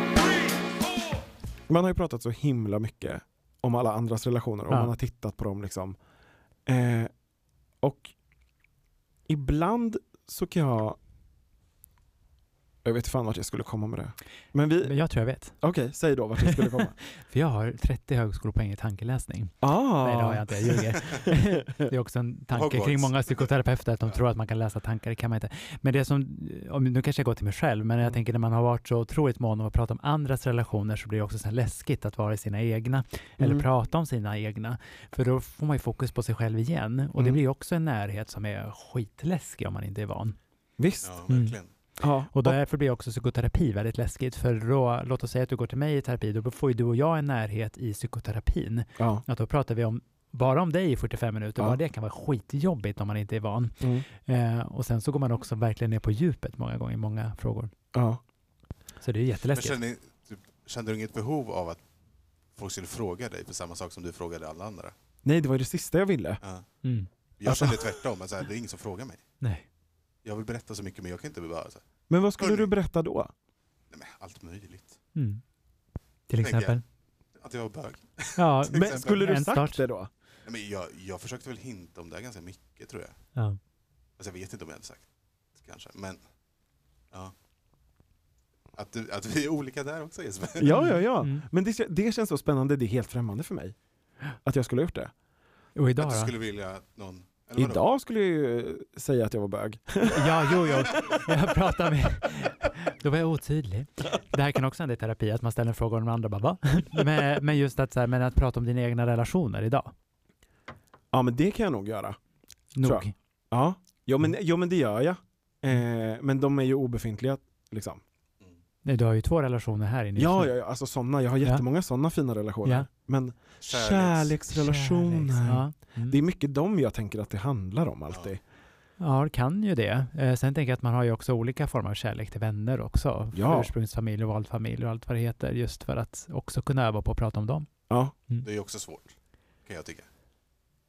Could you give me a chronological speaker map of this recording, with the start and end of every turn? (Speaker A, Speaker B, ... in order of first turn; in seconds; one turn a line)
Speaker A: 1.7-6.0
Speaker A: 6.7-7.1
Speaker A: 7.8-8.1
Speaker A: 9.3-11.0
Speaker A: 12.8-14.9
Speaker B: 14.8-15.6
Speaker A: 15.6-16.9
Speaker B: 16.4-40.4
Speaker A: 19.6-21.9
Speaker C: 22.5-23.5
Speaker A: 33.4-33.6
Speaker A: 37.1-37.4
Speaker A: 40.8-41.1
Speaker C: 41.0-41.7
Speaker B: 41.3-41.6
Speaker A: 42.0-42.6
Speaker B: 42.3-57.7
Speaker A: 49.0-49.2
Speaker A: 53.8-54.0
Speaker A: 57.9-58.2
Speaker B: 59.0-59.8
Speaker C: 59.5-61.8
Speaker C: 62.5-64.9
Speaker A: 65.2-66.4
Speaker B: 66.8-67.1
Speaker C: 67.4-69.2
Speaker A: 67.5-67.8
Speaker C: 70.2-71.8
Speaker A: 72.1-73.3
Speaker C: 72.4-72.7
Speaker C: 73.9-75.0
Speaker B: 75.1-75.4
Speaker B: 76.3-76.8
Speaker C: 76.4-76.8
Speaker C: 77.4-79.2
Speaker B: 78.4-79.8
Speaker A: 78.7-80.1
Speaker C: 80.4-83.2
Speaker C: 84.2-86.2
Speaker C: 88.7-90.8
Speaker A: 90.6-93.8
Speaker B: 90.7-91.5
Speaker A: 94.4-95.1
Speaker B: 95.7-96.3
Speaker C: 96.0-97.8
Speaker A: 97.6-101.2
Speaker B: 100.0-109.9
Speaker A: 111.1-112.2
Speaker B: 112.7-113.1
Speaker A: 112.8-118.0
Speaker B: 118.8-120.5
Speaker A: 120.2-128.4
Speaker C: 123.6-124.3
Speaker B: 124.5-126.2
Speaker B: 129.0-137.7
Speaker A: 133.3-133.7
Speaker C: 138.4-140.1